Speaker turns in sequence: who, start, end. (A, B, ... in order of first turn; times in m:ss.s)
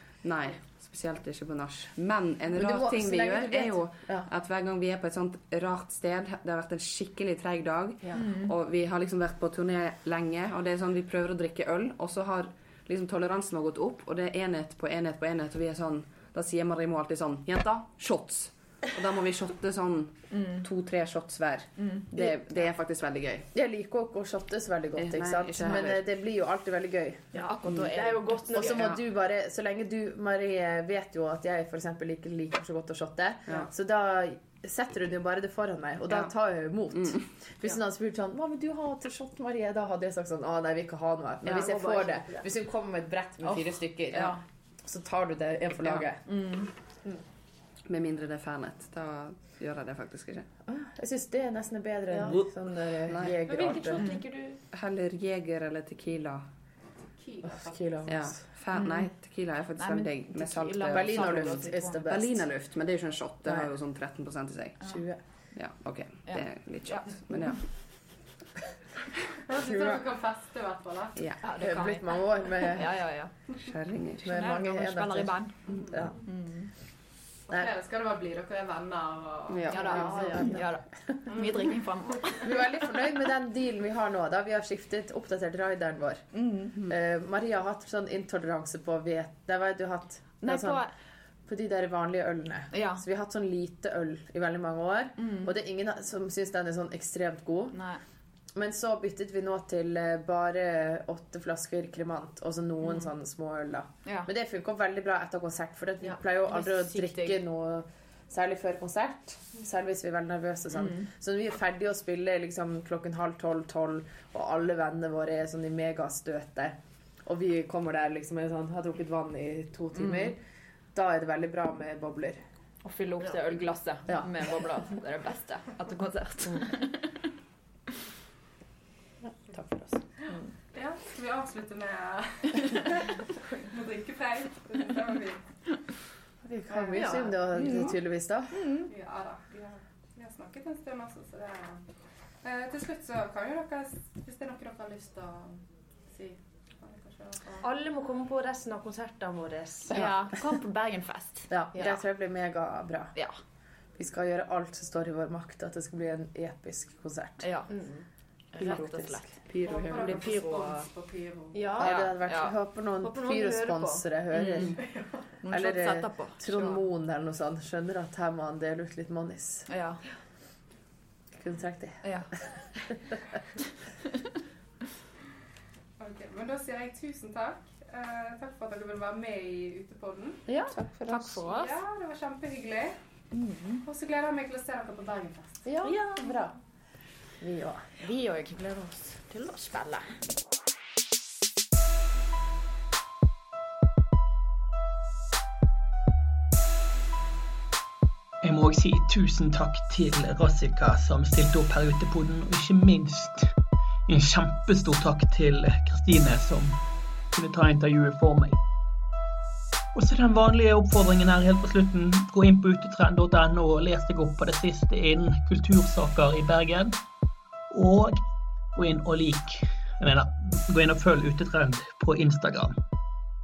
0:00.2-0:23.5 A
0:02.5-0:04.3 B
0:08.2-0:08.5 C
0:20.3-0:20.6 C
0:21.8-0:22.0 C
0:23.5-0:27.3 B
0:25.0-0:26.0 A
0:27.3-0:28.9 D
0:27.3-0:29.0 C
0:28.5-0:46.2 B
0:37.0-0:37.2 A
0:41.4-0:42.5 D
0:43.4-0:44.4 C
0:46.2-0:46.7 C
0:47.8-0:50.5 A
0:50.6-0:54.0 B
0:52.1-0:52.4 D
0:53.0-0:53.9 A
0:53.4-0:54.6 D
0:54.0-0:54.2 C
0:54.6-0:56.4 A
0:56.9-0:58.0 E
0:57.4-0:58.4 B
0:58.0-1:05.0 A
0:58.7-0:59.1 C
0:59.8-1:02.0 C
1:00.9-1:02.5 B
1:04.9-1:05.2 B
1:05.5-1:07.7 A
1:06.3-1:07.6 C
1:09.4-1:11.3 E
1:09.5-1:10.0 B
1:11.2-1:11.4 A
1:11.4-1:13.6 C
1:11.6-1:13.0 B
1:13.6-1:14.3 A
1:14.2-1:16.2 B
1:14.2-1:16.7 C
1:17.5-1:20.3 E
1:19.5-1:20.4 A
1:19.7-1:22.6 C
1:19.9-1:20.6 B
1:19.9-1:20.5 D
1:22.4-1:30.8 B
1:26.3-1:26.8 C
1:30.4-1:30.9 C
1:31.4-1:37.8 B
1:32.7-1:33.0 C
1:35.2-1:35.5 C
1:37.7-1:38.0 C
1:38.5-2:00.4 B
1:46.1-1:47.4 C
1:50.8-1:51.1 C
2:00.0-2:00.3 C
2:00.9-2:02.4 B
2:02.8-2:07.3 C
2:04.1-2:04.5 B
2:09.2-2:10.1 B
2:10.7-2:15.4 E
2:16.4-2:18.6 B
2:16.8-2:17.2 E
2:16.9-2:17.9 D
2:17.5-2:17.9 C
2:18.5-2:18.9 C
2:18.9-2:21.8 E
2:22.4-2:27.7 E
2:27.6-2:30.0 D
2:29.9-2:31.9 C
2:31.5-2:33.2 B
2:34.0-2:37.5 B
2:37.4-2:37.7 C
2:37.7-2:38.0 D
2:38.5-2:39.4 C
2:38.6-2:40.4 A
2:39.6-2:41.8 E
2:39.9-2:40.8 C
2:41.5-2:42.2 D
2:41.8-2:44.8 B
2:42.2-2:42.6 C
2:43.0-2:44.0 D
2:44.3-2:44.8 C
2:44.8-2:45.2 E
2:45.4-2:46.8 C
2:45.5-2:49.7 B
2:49.7-2:50.0 C
2:51.4-2:52.1 B
2:52.0-2:52.3 C
2:56.0-3:00.4 E
3:00.5-3:01.2 B
3:00.6-3:01.8 C
3:00.7-3:01.2 A
3:01.4-3:03.0 E
3:03.3-3:03.8 C
3:03.8-3:05.6 E
3:05.6-3:06.5 B
3:05.8-3:06.1 C
3:07.4-3:07.9 B
3:08.0-3:10.1 C
3:18.4-3:23.5 F
3:24.1-3:26.8 F
3:27.3-3:28.6 F
3:29.9-3:36.9 F
3:37.7-3:38.2 F
3:38.7-3:42.8 F